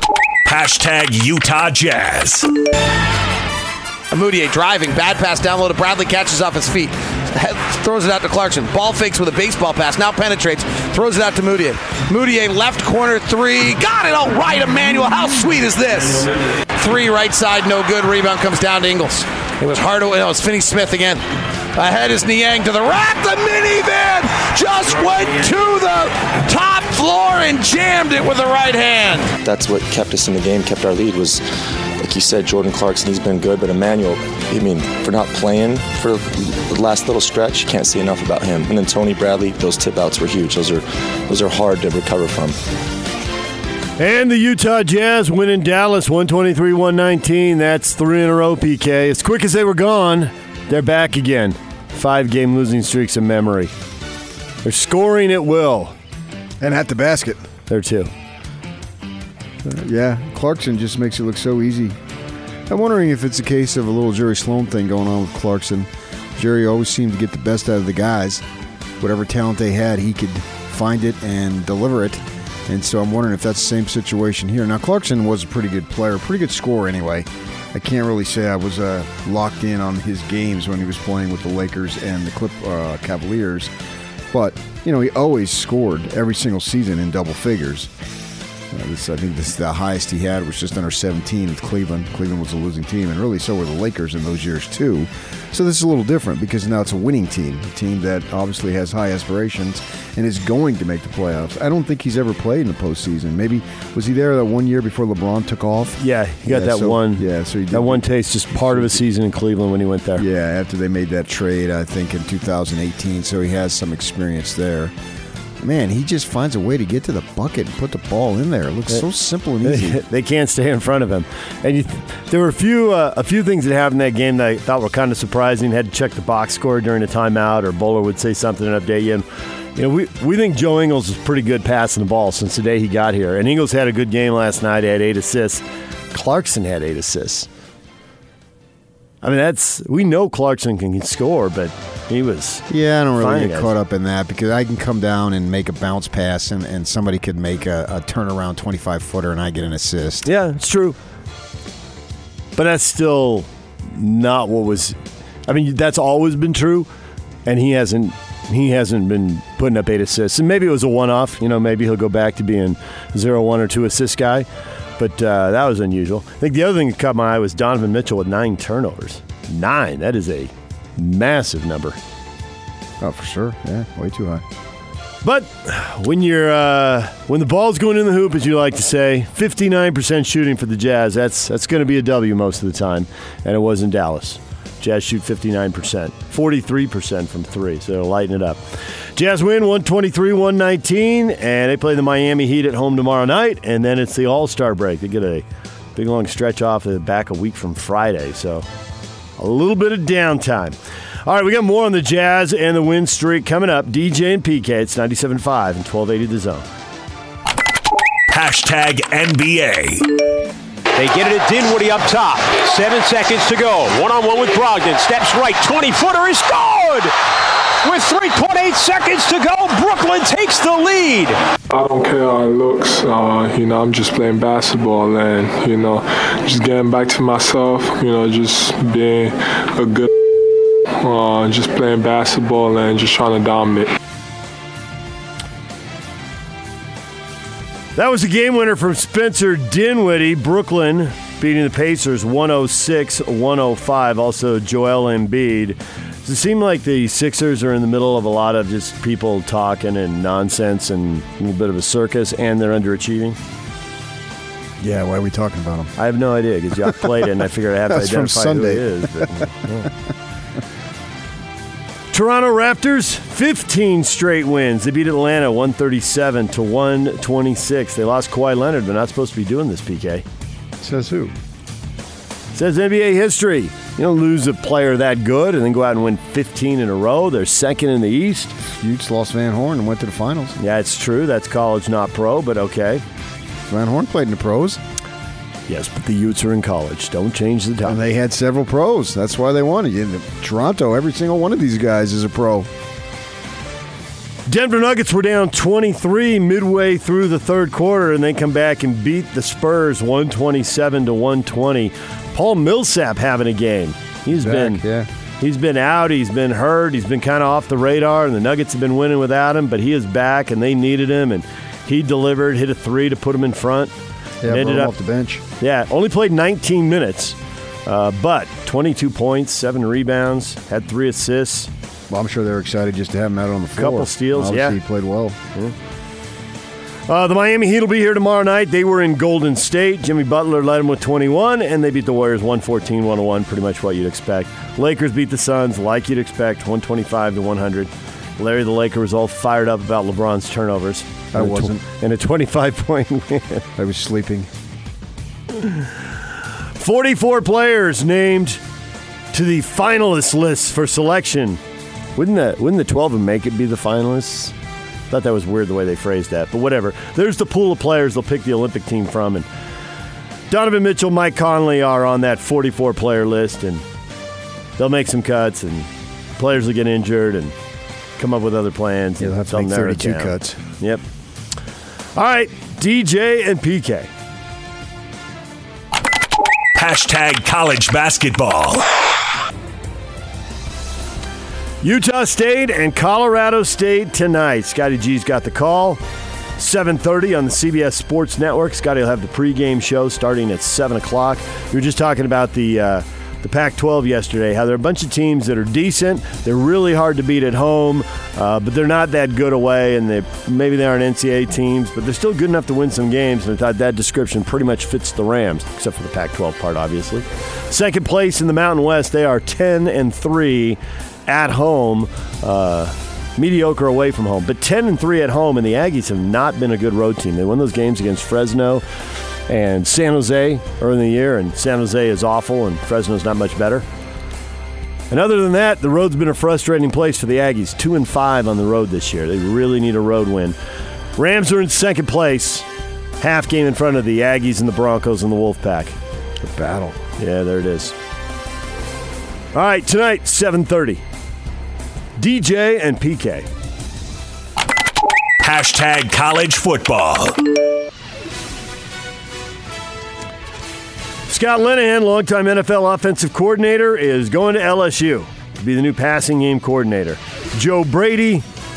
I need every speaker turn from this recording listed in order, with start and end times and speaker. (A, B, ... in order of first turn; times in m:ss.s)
0:00.4-0:02.5 A
0:04.1-0:29.4 B
0:29.4-0:31.4 C
0:32.0-0:42.6 C
0:44.0-0:53.7 D
0:54.6-0:55.9 D
0:56.6-0:57.4 E
0:57.7-0:58.1 D
0:59.6-1:02.0 E
1:02.7-1:08.4 E
1:09.0-1:23.7 E
1:24.3-1:27.9 E
1:28.7-1:49.0 E
1:46.0-1:50.2 D
1:50.2-1:54.9 E
1:55.6-2:00.0 E
1:59.6-2:17.5 D
2:19.2-2:23.7 D
2:22.7-2:30.3 E
2:30.2-2:31.0 D
2:32.6-2:36.9 D
2:37.4-2:44.5 D
2:45.0-2:52.0 D
2:53.0-2:54.4 E
2:55.2-3:18.6 D
3:19.4-3:26.6 D
3:28.3-3:30.1 A
3:30.9-3:37.1 F
3:37.8-3:41.4 F
3:41.7-3:50.1 G
3:51.0-3:53.9 G
3:58.0-4:13.4 D
4:14.8-4:15.9 E
4:16.0-4:19.9 D
4:16.8-4:19.9 E
4:22.1-4:30.2 D
4:30.8-4:31.3 E
4:32.5-4:38.5 D
4:38.8-4:40.5 E
4:40.6-4:43.0 D
4:43.7-4:44.8 E
4:45.7-4:48.0 D
4:47.8-4:52.7 E
4:54.5-5:04.8 D
5:04.3-5:05.1 E
5:05.4-5:13.9 D
5:14.4-5:15.4 E
5:14.4-5:14.9 D
5:15.6-5:21.7 D
5:22.1-5:25.4 E
5:23.8-5:24.8 D
5:27.1-5:43.6 D
5:41.3-5:41.8 E
5:43.8-5:44.5 E
5:45.6-5:45.9 D
5:46.7-5:48.6 D
5:49.3-5:51.6 D
5:52.2-5:54.5 D
5:55.1-5:59.4 D
6:00.5-6:03.8 D
6:04.8-6:07.5 D
6:08.2-6:11.0 D
6:09.2-6:10.6 E
6:12.2-6:14.1 D
6:16.7-6:19.2 A
6:21.8-6:26.0 D
6:26.6-6:58.8 D
6:59.5-7:03.8 D
7:05.1-7:10.5 D
7:11.2-7:12.6 D
7:13.2-7:16.0 D
7:16.4-7:17.0 E
7:17.2-7:17.9 D
7:19.5-7:21.0 D
7:22.2-7:23.5 D
7:25.4-7:27.4 A
7:31.3-7:38.4 D